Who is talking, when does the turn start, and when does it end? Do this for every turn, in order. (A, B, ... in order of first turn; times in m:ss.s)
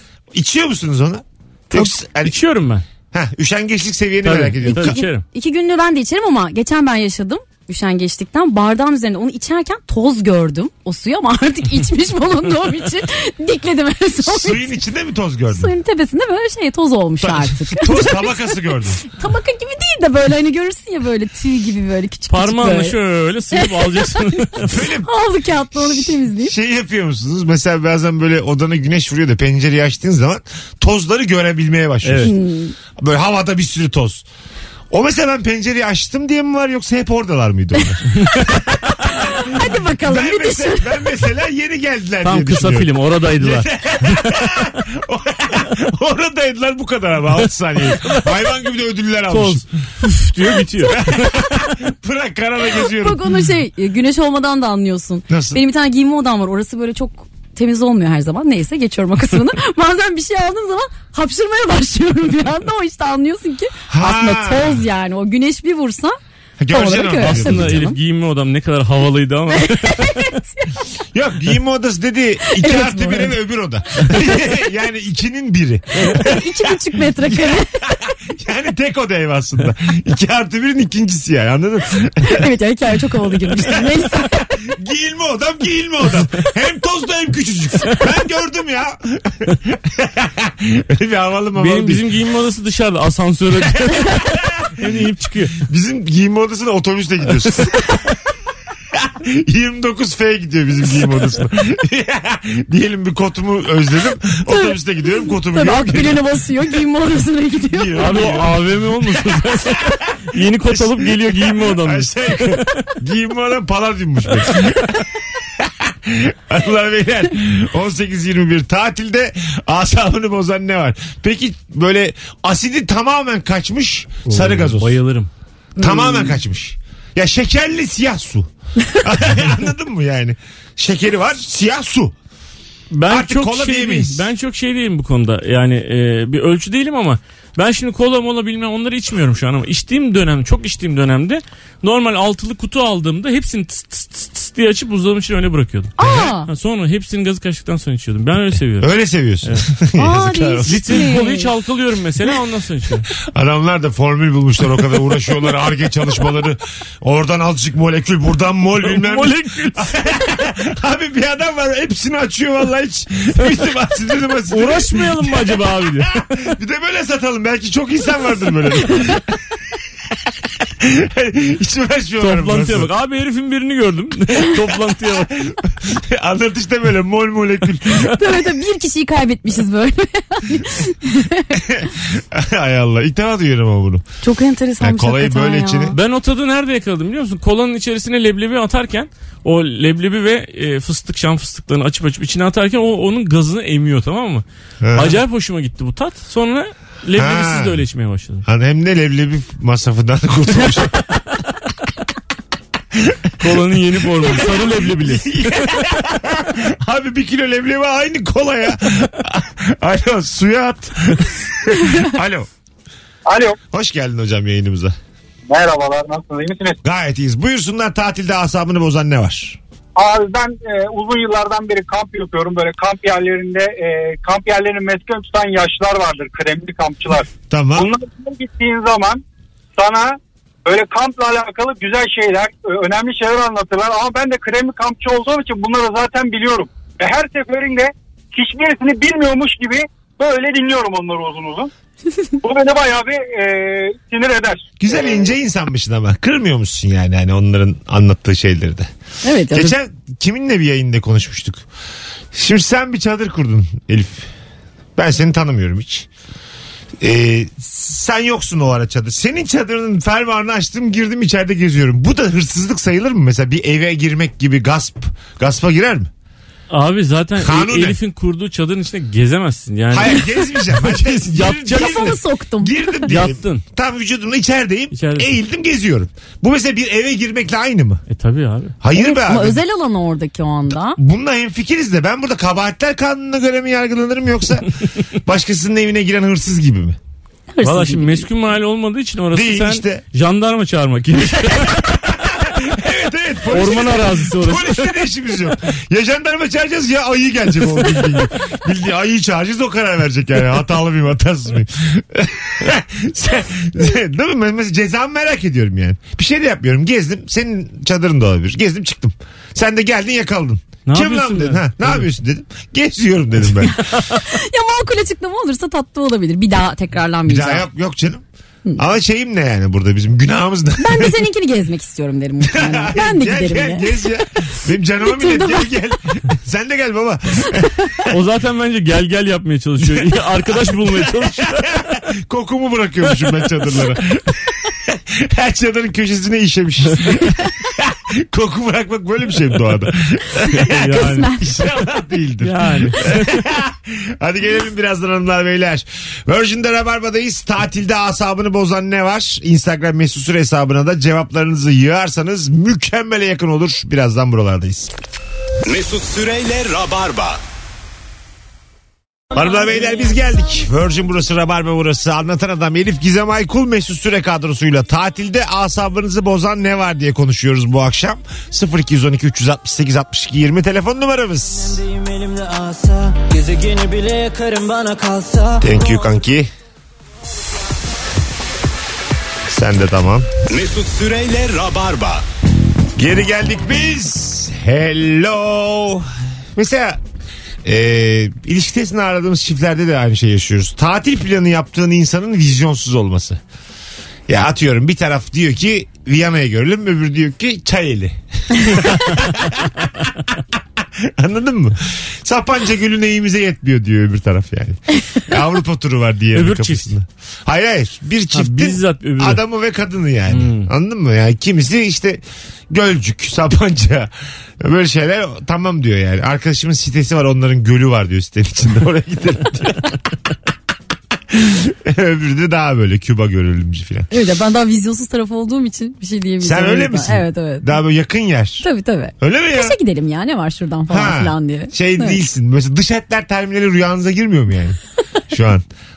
0:00.3-0:02.3 A
0:01.7-0:02.8 B
0:03.1-0:05.0 A
0:04.2-0:05.2 B
0:04.6-0:14.7 C
0:14.2-0:15.7 A
0:15.5-0:18.4 C
0:17.2-0:19.0 A
0:19.1-0:22.9 C
0:22.3-0:24.8 B
0:23.5-0:24.4 C
0:24.6-0:25.1 A
0:25.0-0:26.5 C
0:25.7-0:32.3 A
0:32.0-0:32.3 B
0:32.2-0:32.7 C
0:33.0-0:34.2 A
0:34.9-0:49.6 A
0:39.0-0:41.0 C
0:42.2-0:44.6 B
0:47.9-0:48.2 B
0:49.3-0:51.5 B
0:50.8-0:53.3 A
0:52.9-1:06.2 C
0:55.3-0:55.6 A
1:03.9-1:04.8 A
1:06.6-1:07.8 A
1:06.7-1:08.0 C
1:07.2-1:10.3 B
1:09.5-1:10.7 C
1:11.1-1:22.5 A
1:12.4-1:13.3 C
1:14.1-1:14.5 C
1:16.0-1:17.9 C
1:22.2-1:24.4 C
1:23.4-1:32.0 A
1:31.6-1:35.6 B
1:33.8-1:34.7 A
1:35.6-1:37.9 A
1:38.9-1:46.2 A
1:44.5-1:48.0 C
1:47.7-1:50.0 A
1:48.0-1:52.9 B
1:50.7-2:05.0 A
2:04.3-2:05.3 B
2:05.8-2:12.1 A
2:05.8-2:06.3 C
2:12.9-2:28.9 B
2:13.1-2:14.3 A
2:26.0-2:26.5 C
2:26.0-2:26.3 A
2:28.8-2:30.8 A
2:29.4-2:29.7 B
2:30.0-2:31.5 C
2:30.6-2:33.1 B
2:33.2-2:49.4 A
2:38.8-2:40.1 B
2:44.5-2:46.5 B
2:50.1-2:52.9 A
2:52.2-2:55.5 B
2:54.9-2:58.2 A
2:58.0-3:01.6 C
3:01.5-3:04.0 A
3:04.2-3:05.9 C
3:04.8-3:06.0 A
3:05.9-3:18.4 B
3:14.8-3:15.2 A
3:17.2-3:17.8 A
3:18.4-3:21.0 A
3:22.9-3:23.4 A
3:23.4-3:25.8 B
3:24.2-3:32.5 A
3:33.2-3:33.6 D
3:33.7-3:34.9 A
3:35.5-3:36.8 D
3:36.8-3:39.6 A
3:40.0-3:49.2 D
3:47.5-3:47.9 A
3:49.8-4:01.7 D
4:02.4-4:05.3 D
4:04.8-4:08.9 A
4:09.2-4:09.7 C
4:09.5-4:11.6 A
4:12.3-4:14.3 A
4:15.0-4:16.1 A
4:17.0-4:26.1 A
4:26.7-4:32.2 B
4:27.4-4:28.0 A
4:29.9-4:38.0 A
4:31.7-4:33.1 C
4:33.1-4:33.6 B
4:34.9-4:35.3 B
4:38.1-4:38.8 B
4:38.8-4:39.6 A
4:38.9-4:41.0 C
4:40.9-4:44.7 A
4:45.2-4:47.0 A
4:47.5-4:48.2 C
4:47.6-4:52.2 B
4:49.3-4:50.0 A
4:51.5-5:13.8 A
4:53.5-4:54.9 B
5:10.8-5:12.0 B
5:13.7-5:17.7 C
5:17.3-5:18.2 A
5:18.8-5:21.2 A
5:20.8-5:23.9 C
5:22.4-5:28.2 A
5:25.0-5:25.7 C
5:28.1-5:31.7 B
5:29.8-5:54.9 A
5:40.5-5:41.3 B
5:40.6-5:41.6 C
5:42.4-5:43.5 B
5:55.6-5:57.4 E
5:59.3-6:11.8 A
6:11.5-6:16.0 F
6:15.6-6:16.5 A
6:19.5-6:20.3 A
6:20.5-6:22.2 E
6:23.0-6:27.0 A
6:27.6-6:33.4 A
6:34.3-6:39.9 A
6:40.8-7:00.0 A
6:46.3-6:46.9 B
6:48.3-6:49.4 B
6:50.3-6:50.7 B
7:01.3-7:04.1 A
7:04.1-7:07.7 C
7:06.4-7:08.6 A
7:08.6-7:12.2 C
7:09.2-7:09.8 A
7:10.9-7:14.8 A
7:15.3-7:15.6 A